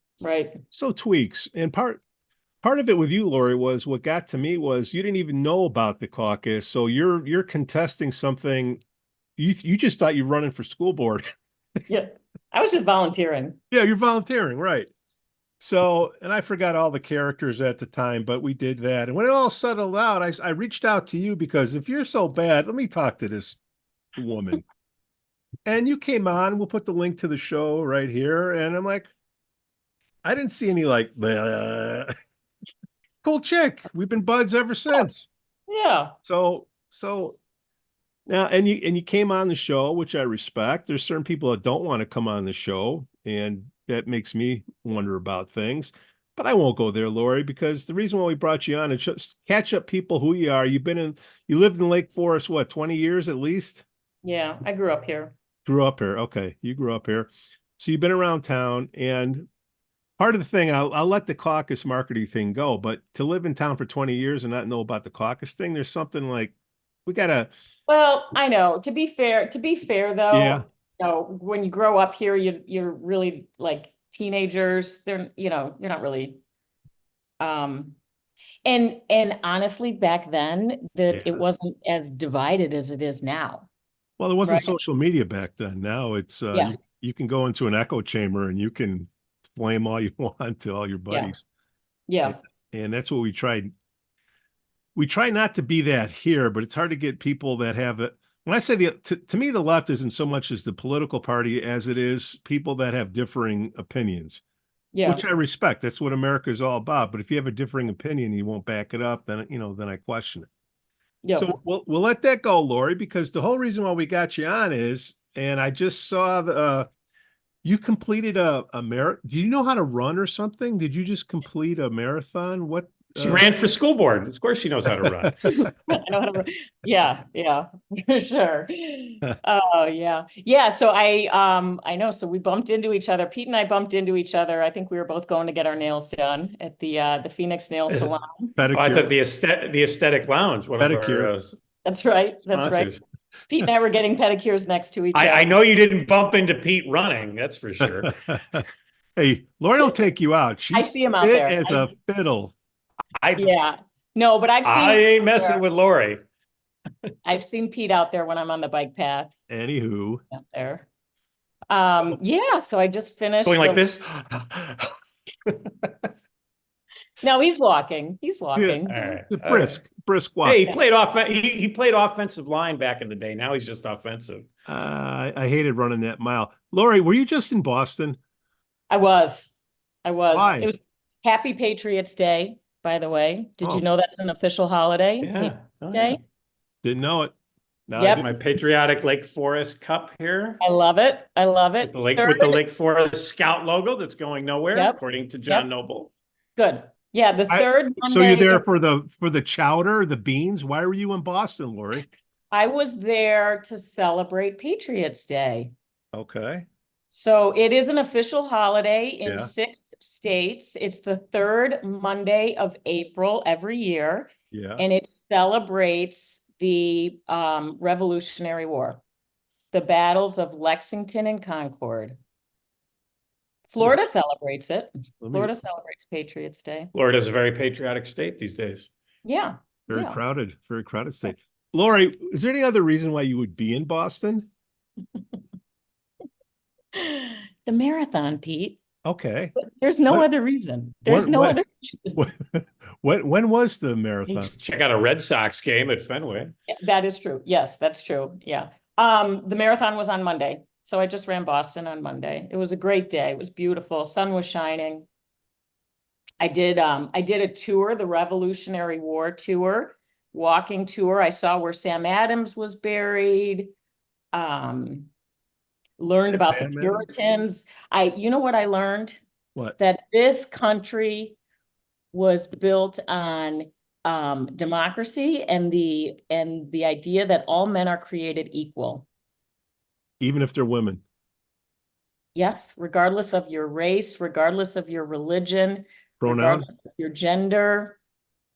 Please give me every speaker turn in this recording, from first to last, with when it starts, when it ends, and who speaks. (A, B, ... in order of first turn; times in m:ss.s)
0:00.2-0:00.6 A
0:00.7-0:02.0 B
0:02.6-0:08.8 B
0:09.4-0:11.2 B
0:11.9-0:13.6 A
0:13.7-0:14.9 B
0:15.6-0:23.6 B
0:24.2-0:24.6 B
0:25.7-0:29.1 B
0:30.2-0:32.1 B
0:33.2-0:35.3 B
0:35.7-0:36.1 A
0:36.2-0:37.4 B
0:38.3-0:53.8 B
0:54.2-0:55.3 A
0:55.7-0:59.5 B
1:00.2-1:06.5 B
1:07.0-1:07.5 B
1:07.9-1:16.4 A
1:10.3-1:10.6 B
1:17.4-1:18.0 A
1:18.6-1:23.7 A
1:21.1-1:21.4 B
1:24.2-1:31.4 B
1:24.4-1:24.7 A
1:32.1-1:32.4 A
1:32.2-1:33.7 B
1:35.0-1:44.4 B
1:44.9-1:45.2 A
1:45.0-1:50.5 B
1:51.2-1:51.5 A
1:51.3-1:56.9 B
1:57.6-2:03.5 B
2:03.2-2:05.4 C
2:05.4-2:18.6 A
2:17.9-2:19.1 B
2:18.7-2:21.6 C
2:20.8-2:21.3 B
2:21.8-2:22.9 A
2:22.5-2:23.0 C
2:23.5-2:25.6 A
2:25.1-2:28.1 C
2:27.8-2:28.7 B
2:29.2-2:32.6 B
2:30.7-2:31.9 A
2:33.2-2:33.5 C
2:33.4-2:35.6 A
2:34.6-2:36.2 C
2:37.2-2:39.3 A
2:39.5-2:40.2 B
2:40.3-2:40.9 A
2:41.7-2:43.8 A
2:43.4-2:45.0 C
2:45.5-2:46.1 C
2:47.2-2:49.2 A
2:48.6-2:50.7 B
2:48.9-2:49.8 C
2:50.4-2:54.5 C
2:54.7-2:58.2 B
2:58.9-2:59.5 A
3:00.0-3:06.2 A
3:00.3-3:00.7 B
3:05.2-3:06.2 C
3:06.8-3:07.3 B
3:07.9-3:08.3 B
3:08.0-3:08.2 A
3:08.1-3:10.6 C
3:10.6-3:12.6 A
3:11.8-3:16.1 C
3:14.7-3:15.7 A
3:16.6-3:18.7 A
3:17.5-3:22.1 B
3:22.5-3:25.7 A
3:26.1-3:26.7 B
3:27.1-3:39.0 A
3:29.2-3:29.5 B
3:34.5-3:34.8 B
3:39.7-3:42.2 A
3:43.7-3:46.9 A
3:45.2-3:45.5 B
3:46.9-3:48.9 C
3:49.2-3:50.2 A
3:49.9-3:54.5 B
3:56.9-3:58.8 A
3:59.0-3:59.6 B
3:59.6-4:02.2 A
4:01.1-4:01.6 B
4:02.2-4:04.5 B
4:04.3-4:06.5 C
4:06.7-4:15.1 A
4:16.4-4:23.7 A
4:24.3-4:25.1 A
4:26.0-4:29.2 A
4:26.3-4:27.0 B
4:29.8-4:31.4 A
4:32.1-4:39.1 A
4:40.2-4:41.0 B
4:42.3-4:48.0 A
4:46.2-4:46.6 B